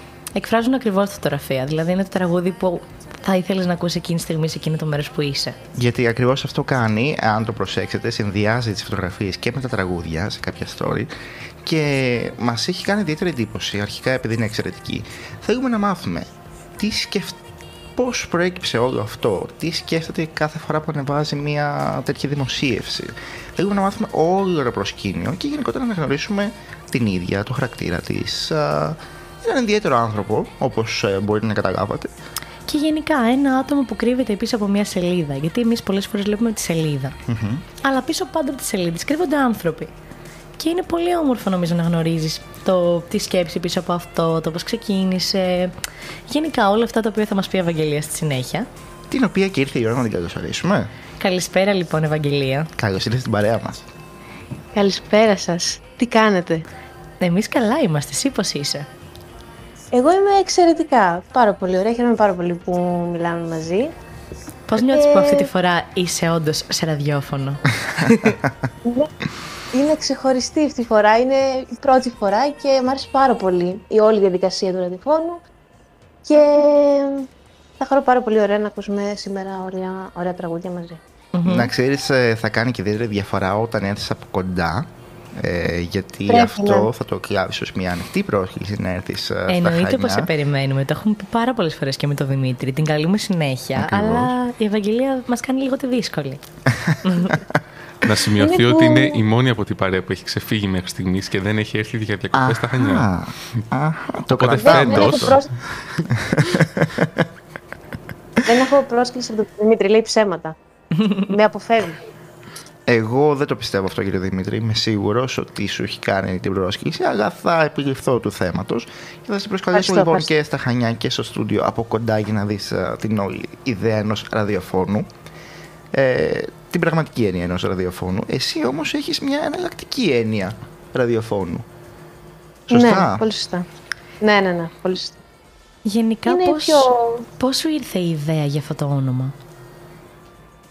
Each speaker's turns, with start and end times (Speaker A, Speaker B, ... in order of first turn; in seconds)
Speaker A: 0.3-5.6, 32.7-37.1, 37.8-39.9, 40.6-45.7, 46.3-48.7, 51.2-52.7, 57.2-58.9, 64.7-68.4, 81.3-81.7, 89.5-96.4, 97.0-97.4, 135.8-136.9, 137.4-139.3
Speaker B: 5.7-11.1, 11.6-17.4, 17.9-32.1, 37.3-37.6, 49.1-50.9, 52.8-53.8, 68.2-68.5, 81.4-90.3, 93.8-94.3, 102.3-105.4, 106.0-107.2, 112.9-125.0, 125.9-131.6, 132.7-133.2
Speaker C: 54.7-56.6, 59.9-63.9, 64.8-65.5, 68.8-69.1, 69.7-75.4, 76.2-77.3, 77.8-81.0, 86.3-86.9, 98.4-99.2, 104.5-105.5, 108.4-110.5, 111.2-112.0, 119.7-120.3, 132.7-133.7, 134.2-135.2, 136.2-137.2
Speaker D: 98.0-103.0, 104.3-105.4